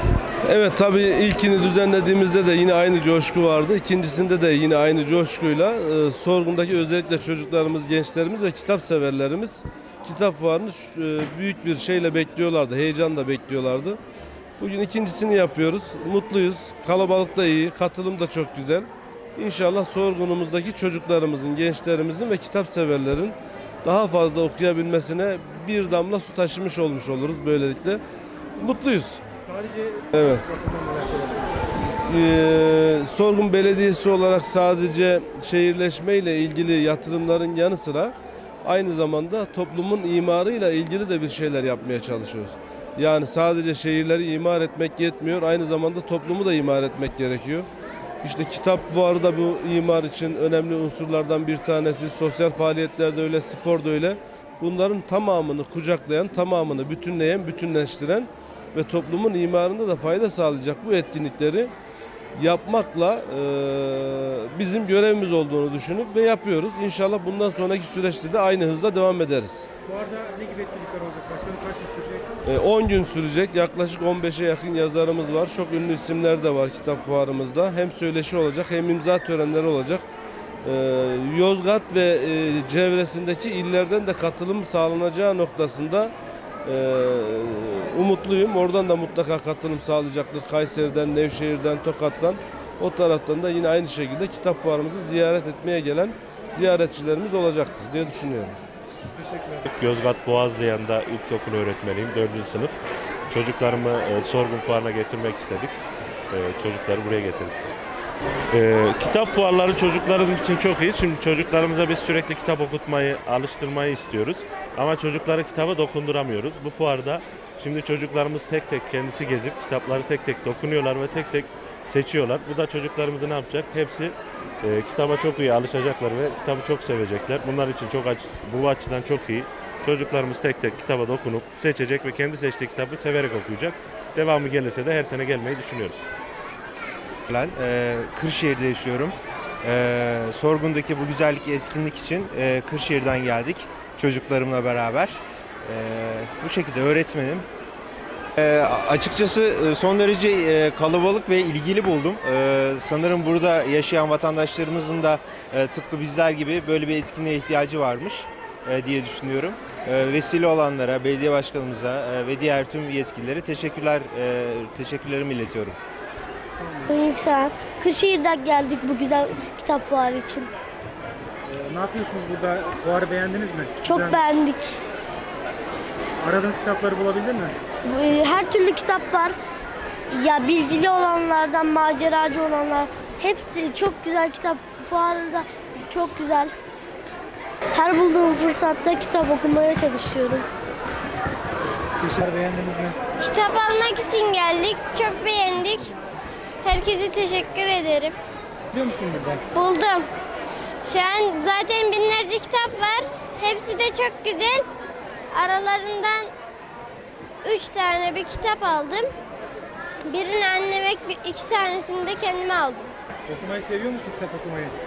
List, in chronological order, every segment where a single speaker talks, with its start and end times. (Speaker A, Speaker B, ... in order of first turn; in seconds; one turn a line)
Speaker A: 0.5-14.0
Speaker A: 14.6-28.0
Speaker A: 28.6-29.2
Speaker B: 29.4-31.5
Speaker A: 30.1-30.5
Speaker A: 32.0-47.7
Speaker A: 48.2-61.7
Speaker A: 62.4-69.7
Speaker B: 69.8-72.4
Speaker A: 72.5-80.0
Speaker A: 80.6-98.6
Speaker B: 99.2-99.6
Speaker C: 99.7-102.7
Speaker C: 103.3-105.8
Speaker C: 106.3-107.6
Speaker C: 108.5-136.1
Speaker D: 137.3-147.5
Speaker D: 148.4-165.8
Speaker B: 166.6-166.9
Speaker E: 166.9-170.5
Speaker B: 171.5-174.2
Speaker E: 173.8-174.8
Speaker B: 176.2-177.6
Speaker E: 177.8-179.3
Speaker E: 180.1-186.5
Speaker E: 187.7-190.5
Speaker B: 192.0-193.0
Speaker F: 193.2-196.0
Speaker F: 196.6-198.2
Speaker B: 198.7-199.4
Speaker F: 199.5-200.1
Speaker F: 200.8-204.7
Speaker F: 205.3-206.3
Speaker F: 207.4-209.1
Speaker F: 210.1-212.9
Speaker B: 213.3-214.8